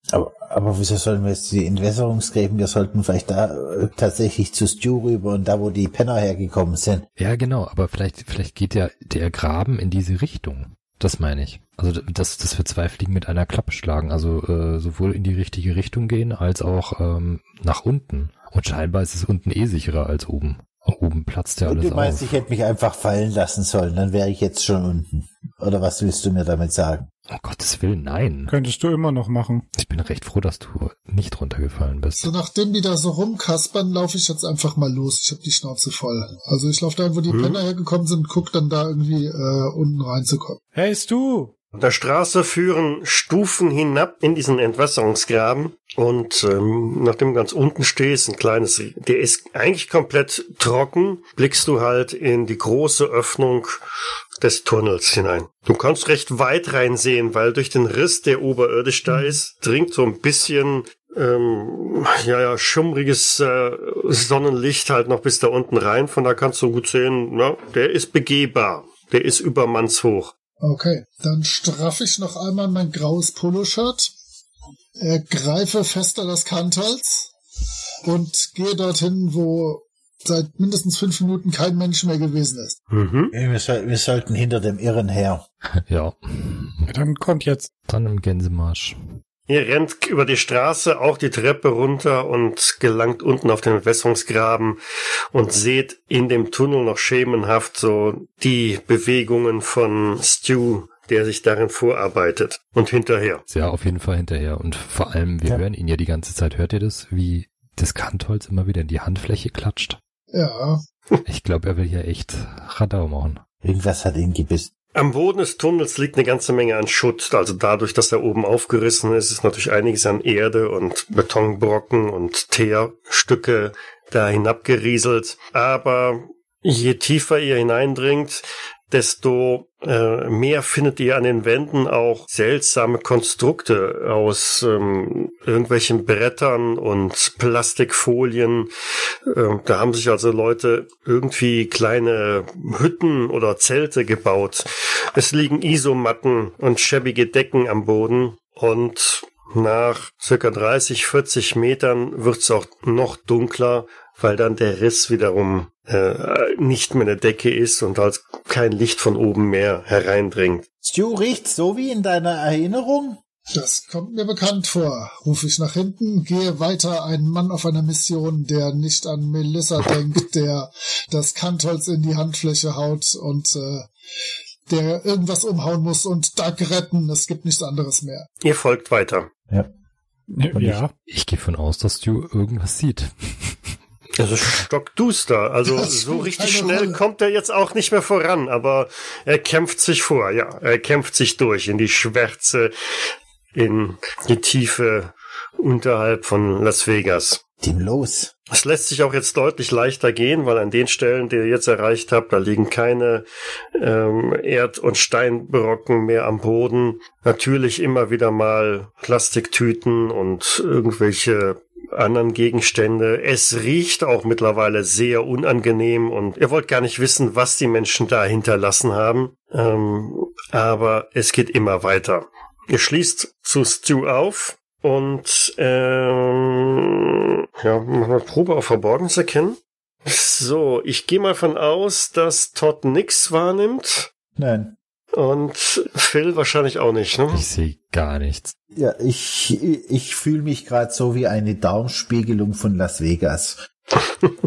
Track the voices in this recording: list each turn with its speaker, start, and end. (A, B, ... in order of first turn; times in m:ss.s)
0:00.1-0:07.1 A
0:07.2-0:22.4 B
0:21.6-0:27.1 A
0:27.3-0:28.5 B
0:28.5-0:29.7 C
0:29.8-0:32.3 B
0:32.2-0:40.6 D
0:37.3-0:37.6 E
0:40.8-0:41.5 C
0:41.7-0:53.8 E
0:54.4-1:10.3 E
1:10.6-1:14.1 D
1:15.0-1:17.3 D
1:18.0-1:22.8 D
1:22.9-1:23.3 E
1:23.3-1:25.4 A
1:25.9-1:26.9 B
1:26.9-1:27.7 C
1:27.9-1:29.0 B
1:29.5-1:34.8 E
1:35.3-1:43.4 E
1:43.5-1:50.0 B
1:50.3-1:50.8 D
1:51.3-1:53.4 B
1:53.6-1:54.7 A
1:55.0-2:18.7 E
2:19.3-2:40.6 E
2:40.8-2:43.2 A
2:43.5-2:53.9 D
2:54.7-2:58.3 D
2:58.4-2:59.3 E
3:00.3-3:00.9 C
3:00.5-3:00.8 A
3:01.1-3:03.6 B
3:04.2-3:12.7 E
3:05.7-3:07.0 D
3:13.6-3:17.4 E
3:17.6-3:18.3 A
3:18.5-3:23.3 E
3:23.8-3:54.1 E
3:54.4-3:54.8 A
3:55.1-3:57.4 E
3:57.3-3:58.5 B
3:58.8-4:03.6 A